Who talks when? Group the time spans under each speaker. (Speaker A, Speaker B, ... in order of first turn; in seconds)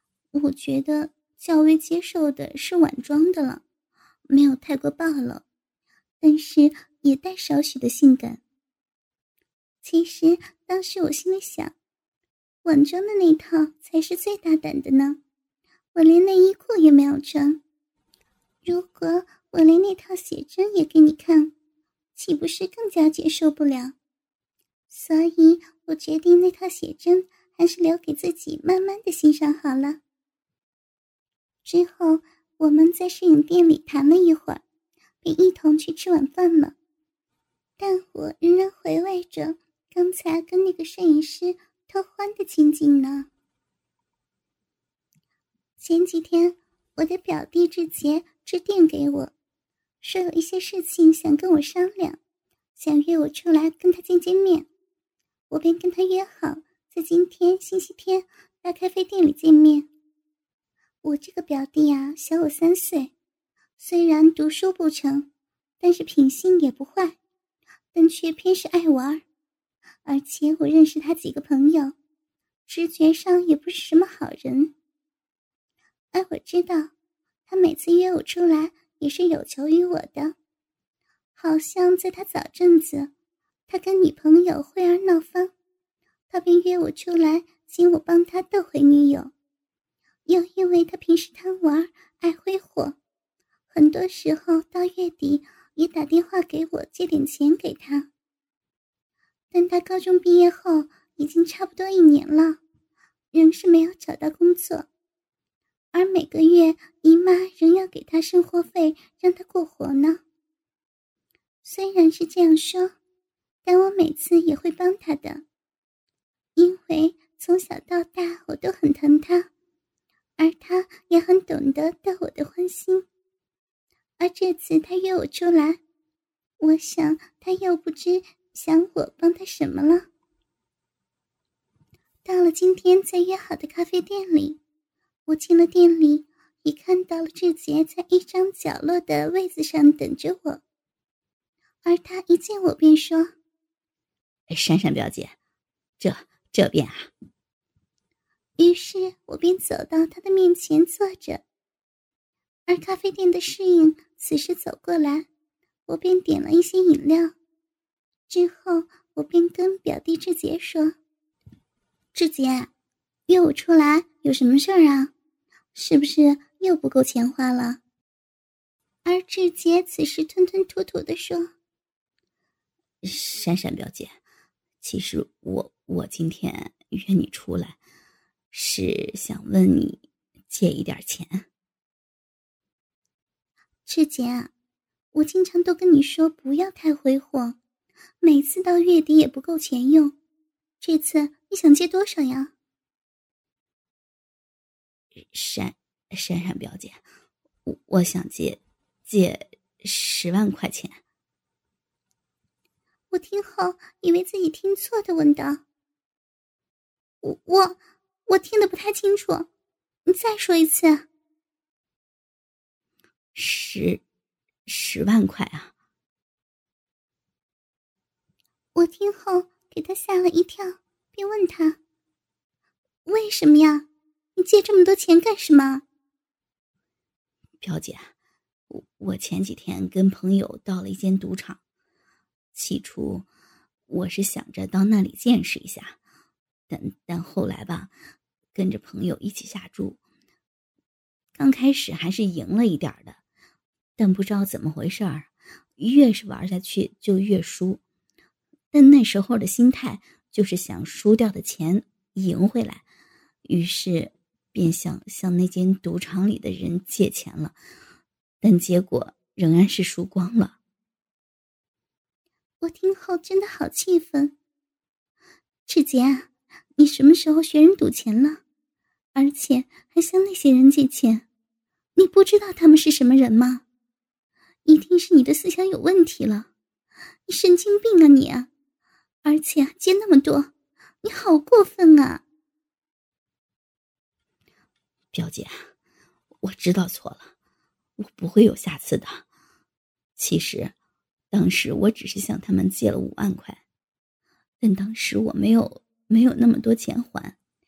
Speaker A: 0.3-3.6, 4.3-5.4, 6.2-8.4, 9.8-11.7, 12.6-15.2, 15.9-17.6, 18.6-21.5, 22.1-23.9, 24.9-30.0, 31.6-34.6, 35.2-36.8, 37.8-43.3, 45.8-49.3, 50.0-52.2, 52.8-54.7, 55.5-59.9, 61.0-63.1, 63.8-65.3, 65.8-67.2, 67.9-69.2, 70.0-72.0, 72.7-74.7, 76.1-76.9, 77.5-80.3, 81.4-83.1, 83.7-85.5, 86.3-89.3, 90.3-93.0, 93.7-98.1, 99.5-102.6, 103.3-104.9, 105.9-110.2, 111.6-112.9, 113.7-115.5, 116.6-119.5, 120.4-123.1, 124.2-125.8, 126.6-130.1, 132.2-134.6, 135.3-140.6, 141.8-143.3, 148.6-151.4, 152.7-155.3, 155.9-157.3, 158.3-161.0, 162.1-162.7, 163.3-165.1, 165.7-167.8, 169.1-171.5, 183.9-184.5, 185.1-187.6, 188.2-190.2, 190.8-192.5, 203.1-205.6, 207.2-209.5, 210.1-211.1, 218.8-221.8, 223.1-225.8, 262.6-264.4, 265.7-268.4, 269.1-271.2, 272.0-273.6, 274.6-276.5, 277.3-278.5, 279.2-280.5, 281.0-282.2
Speaker B: 144.5-145.3, 146.0-147.1, 173.0-174.2, 174.8-177.8, 178.5-181.5, 195.3-197.0, 197.7-201.0, 213.3-214.0, 214.7-215.7, 227.6-228.1, 228.7-231.6, 232.6-233.3, 233.9-236.0, 236.7-237.9, 238.6-240.0, 241.4-243.2, 244.0-247.8, 248.7-252.8, 253.5-257.6, 258.4-260.6, 285.1-285.6, 286.4-287.3, 288.0-289.2, 290.2-290.7, 291.3-293.6, 294.6-297.4